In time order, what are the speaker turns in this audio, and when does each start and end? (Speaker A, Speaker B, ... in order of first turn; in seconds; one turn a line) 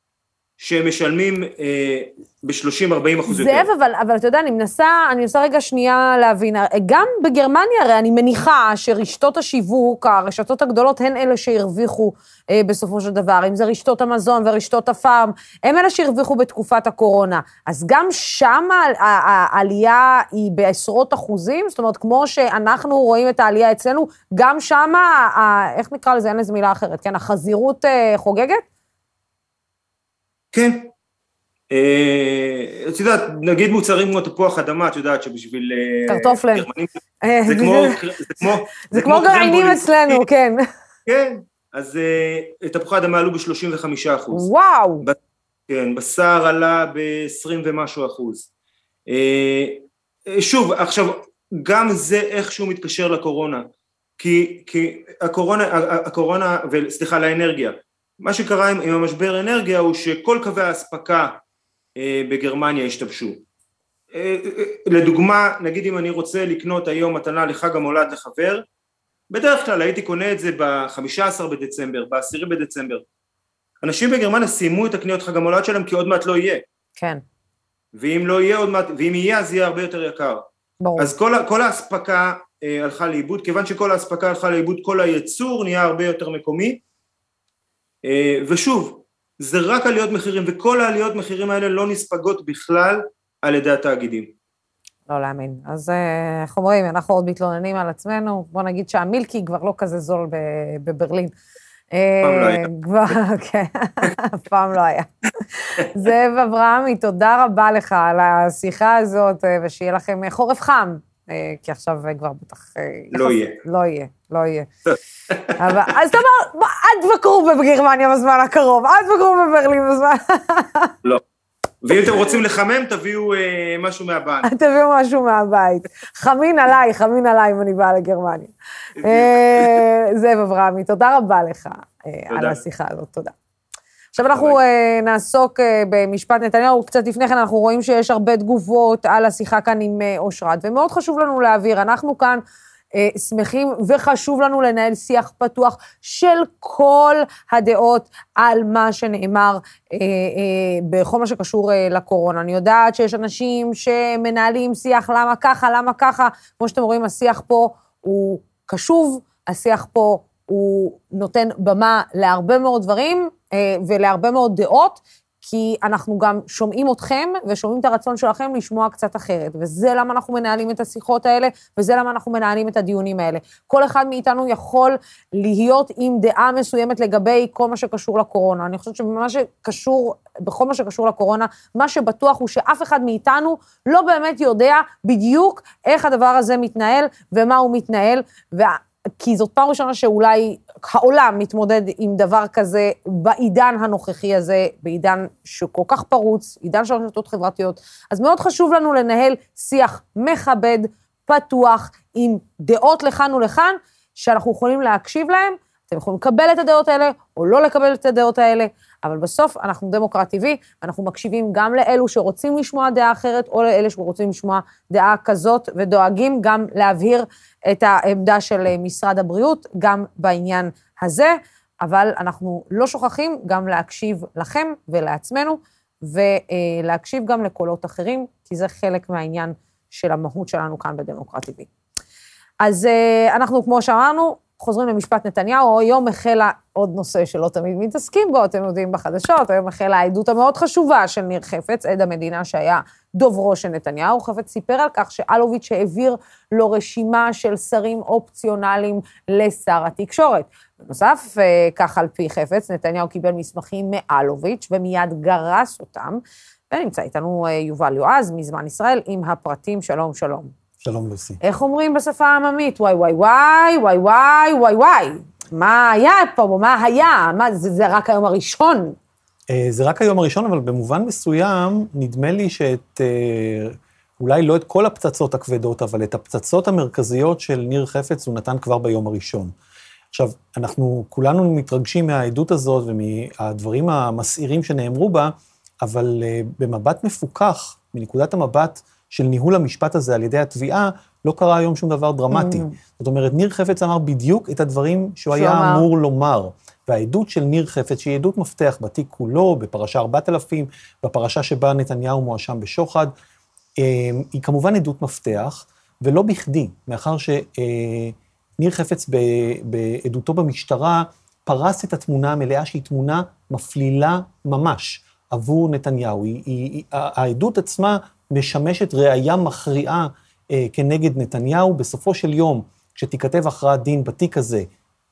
Speaker A: 0.6-3.7
Speaker B: 3.3-28.6
Speaker A: 30.5-30.9
Speaker A: 31.7-36.9
Speaker B: 36.1-36.7
Speaker B: 37.2-38.0
Speaker A: 37.5-40.2
Speaker B: 38.9-40.6
Speaker A: 41.0-44.5
Speaker B: 44.3-45.0
Speaker A: 45.7-48.5
Speaker A: 49.1-53.6
Speaker A: 54.2-61.4
Speaker A: 62.0-63.4
Speaker A: 64.1-68.6
Speaker A: 69.3-73.0
Speaker A: 73.8-76.6
Speaker B: 77.0-77.2
Speaker A: 77.9-80.5
Speaker B: 80.8-81.1
Speaker A: 81.0-86.8
Speaker A: 88.0-94.3
Speaker B: 95.1-101.3
Speaker B: 101.9-114.7
Speaker A: 102.2-102.7
Speaker A: 113.1-113.6
Speaker B: 115.5-120.9
Speaker A: 121.8-124.5
Speaker B: 124.4-133.3
Speaker A: 129.0-129.8
Speaker A: 132.3-132.6
Speaker B: 134.1-142.4
Speaker A: 134.2-134.6
Speaker B: 142.9-231.7
Speaker B: 232.6-256.2
Speaker B: 256.7-260.5
Speaker C: 260.8-261.4
Speaker B: 261.4-269.0
Speaker C: 269.5-279.5
Speaker C: 280.1-303.1
Speaker B: 292.3-292.7
Speaker B: 295.3-295.8
Speaker C: 303.8-324.7